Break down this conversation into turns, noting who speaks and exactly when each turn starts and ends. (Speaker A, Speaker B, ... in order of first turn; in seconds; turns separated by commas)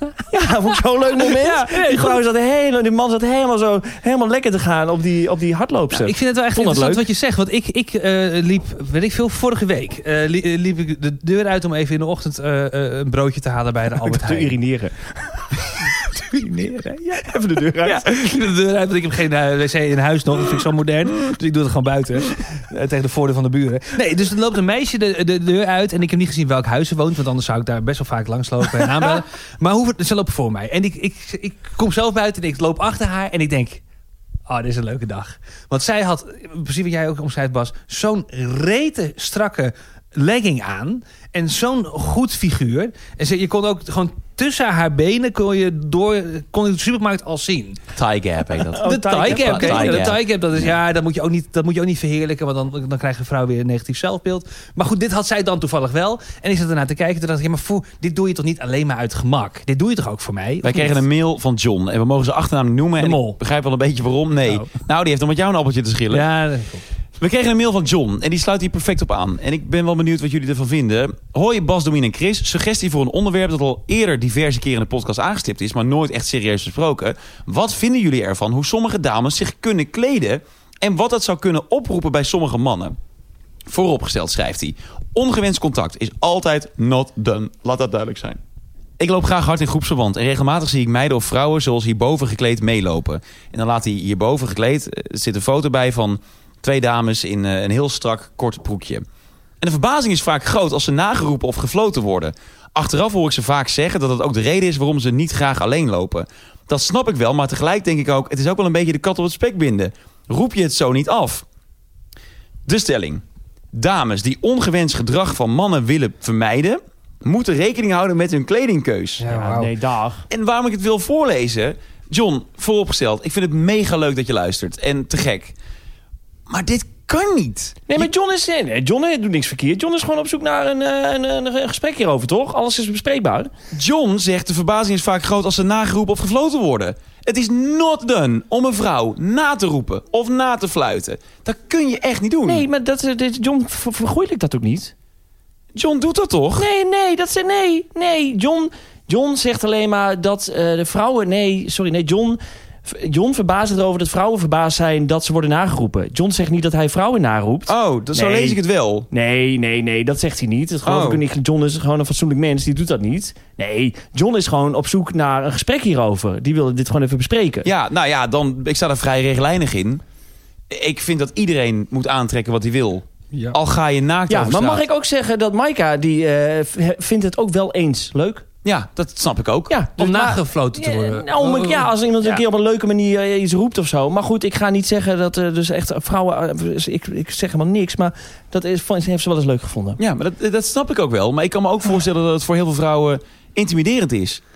Speaker A: 0.3-7.0, Speaker B: 1.2-2.2, Speaker B: 5.9-14.5, Speaker A: 14.0-15.1, Speaker B: 16.0-17.2, Speaker A: 17.1-18.0, Speaker B: 17.8-33.8, Speaker B: 34.5-47.8, Speaker C: 47.9-50.2, Speaker A: 48.8-50.1, Speaker B: 48.8-61.0, Speaker C: 60.6-66.2, Speaker B: 63.0-63.4, Speaker B: 66.1-66.8, Speaker C: 67.2-83.0, Speaker C: 83.7-88.4, Speaker C: 89.0-99.0, Speaker C: 99.6-111.4, Speaker C: 112.7-113.2, Speaker C: 113.7-119.2, Speaker B: 119.2-119.7, Speaker A: 119.2-120.3, Speaker C: 120.3-125.5, Speaker C: 126.5-128.1, Speaker A: 127.9-133.5, Speaker C: 133.7-142.7, Speaker A: 142.4-144.9, Speaker C: 145.7-146.7, Speaker A: 146.6-158.6, Speaker C: 157.7-159.1, Speaker A: 159.1-167.7, Speaker C: 160.8-161.2, Speaker C: 167.6-170.0, Speaker C: 170.7-174.8, Speaker B: 173.3-173.6, Speaker A: 174.3-178.4, Speaker C: 178.6-179.7, Speaker A: 179.7-190.0, Speaker B: 180.0-182.4, Speaker C: 190.0-194.4